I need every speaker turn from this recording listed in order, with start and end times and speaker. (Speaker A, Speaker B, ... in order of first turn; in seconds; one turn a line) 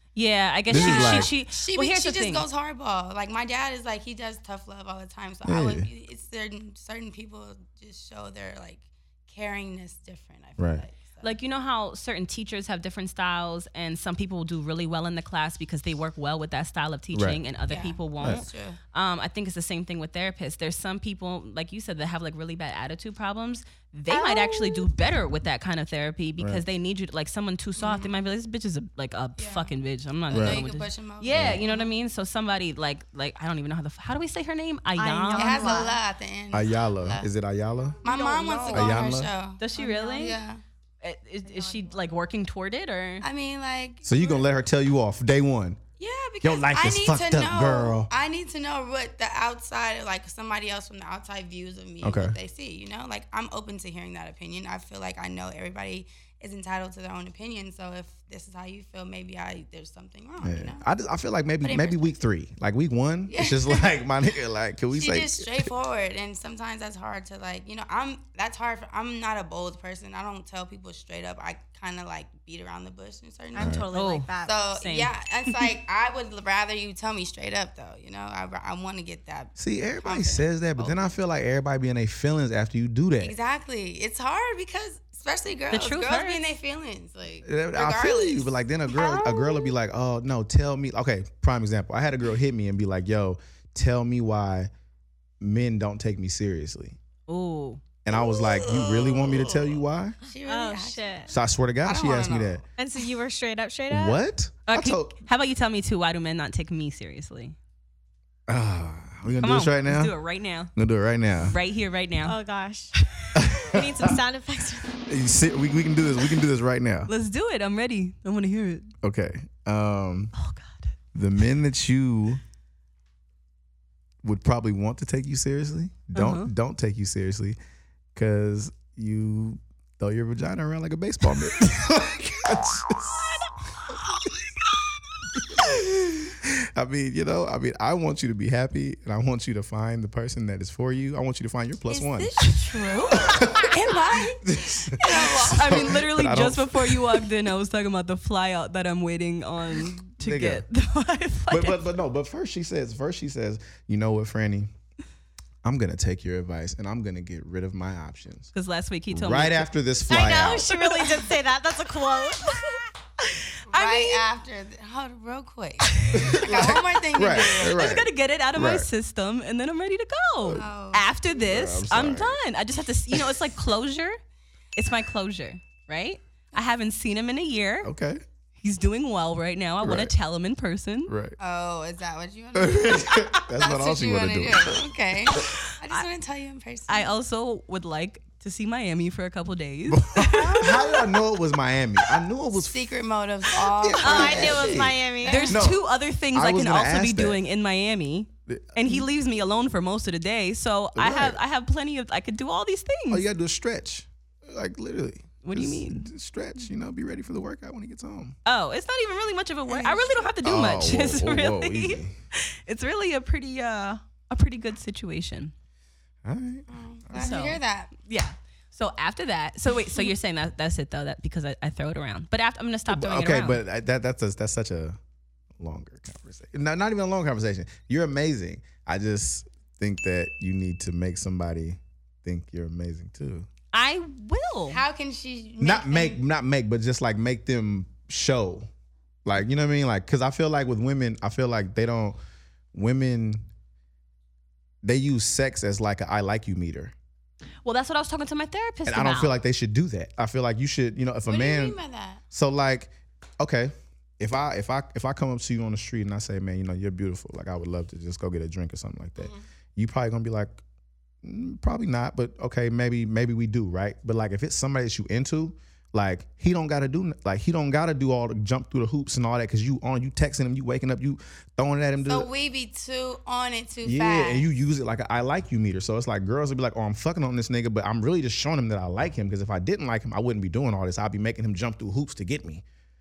Speaker A: 0.1-2.5
Speaker B: 0.7-1.3
Speaker C: 0.7-11.3
Speaker B: 5.4-5.9
Speaker B: 10.6-10.8
Speaker A: 11.2-35.9
Speaker B: 17.1-17.4
Speaker C: 17.7-18.8
Speaker C: 27.8-28.2
Speaker C: 29.4-29.7
Speaker C: 30.3-31.9
Speaker B: 30.3-30.6
Speaker B: 31.3-31.6
Speaker D: 35.0-36.0
Speaker C: 35.3-37.3
Speaker B: 36.5-38.1
Speaker C: 38.0-40.6
Speaker D: 38.2-38.7
Speaker B: 38.7-39.3
Speaker A: 39.6-40.4
Speaker A: 41.0-43.2
Speaker D: 41.4-42.0
Speaker C: 43.2-44.5
Speaker B: 44.0-45.8
Speaker C: 46.0-60.9
Speaker B: 46.4-48.1
Speaker B: 52.0-52.4
Speaker B: 60.4-65.7
Speaker C: 61.6-62.2
Speaker C: 63.3-64.0
Speaker C: 64.9-73.8
Speaker D: 73.5-74.5
Speaker B: 73.6-73.8
Speaker A: 73.9-75.7
Speaker C: 74.4-81.2
Speaker B: 79.6-83.3
Speaker C: 83.2-89.6
Speaker A: 85.7-86.4
Speaker B: 87.4-94.7
Speaker B: 95.4-97.0
Speaker A: 97.3-97.8
Speaker B: 98.0-100.2
Speaker C: 98.1-99.7
Speaker C: 100.2-102.6
Speaker D: 100.4-101.3
Speaker B: 101.3-102.6
Speaker D: 102.8-104.2
Speaker B: 103.9-105.2
Speaker A: 104.7-107.5
Speaker B: 108.5-110.1
Speaker A: 109.4-110.7
Speaker B: 110.7-111.6
Speaker A: 111.4-112.3
Speaker D: 112.2-112.9
Speaker B: 113.3-114.2
Speaker D: 113.5-114.9
Speaker B: 115.0-117.1
Speaker A: 117.1-118.9
Speaker B: 119.0-120.3
Speaker A: 120.3-120.9
Speaker B: 121.1-122.4
Speaker B: 124.2-127.6
Speaker A: 126.1-126.5
Speaker B: 128.1-134.3
Speaker B: 135.3-142.3
Speaker D: 141.9-142.9
Speaker C: 142.2-144.4
Speaker B: 143.1-147.3
Speaker C: 145.0-146.0
Speaker A: 145.1-151.9
Speaker B: 150.2-150.6
Speaker B: 151.5-154.7
Speaker B: 155.6-158.5
Speaker A: 158.5-159.7
Speaker B: 159.1-160.7
Speaker D: 160.1-162.8
Speaker A: 160.8-161.1
Speaker A: 163.2-164.2
Speaker C: 163.7-168.0
Speaker A: 165.9-166.8
Speaker B: 166.1-168.9
Speaker A: 167.6-174.2
Speaker C: 170.5-171.1
Speaker B: 171.3-172.4
Speaker B: 173.1-173.4
Speaker A: 174.8-177.9
Speaker B: 177.8-178.2
Speaker A: 178.6-181.1
Speaker B: 179.8-180.1
Speaker B: 181.1-181.4
Speaker C: 181.4-187.1
Speaker B: 182.5-185.5
Speaker A: 186.9-191.0
Speaker B: 189.9-197.4
Speaker C: 190.4-190.8
Speaker C: 192.5-195.6
Speaker D: 194.0-195.5
Speaker A: 195.2-203.2
Speaker B: 198.5-199.0
Speaker B: 200.9-201.4
Speaker B: 203.1-208.3
Speaker A: 205.4-206.0
Speaker A: 208.4-215.5
Speaker C: 209.7-210.3
Speaker B: 210.4-212.1
Speaker B: 216.2-217.4
Speaker C: 216.7-217.9
Speaker A: 217.1-223.6
Speaker B: 222.9-225.0
Speaker B: 225.6-233.5
Speaker A: 233.7-234.8
Speaker C: 234.7-236.2
Speaker B: 235.6-238.7
Speaker B: 239.2-242.2
Speaker B: 242.7-243.5
Speaker B: 244.8-246.9
Speaker A: 247.6-249.3
Speaker B: 248.8-251.8
Speaker C: 251.3-252.2
Speaker B: 252.3-260.6
Speaker B: 261.2-272.3
Speaker C: 272.0-274.4
Speaker B: 273.8-282.6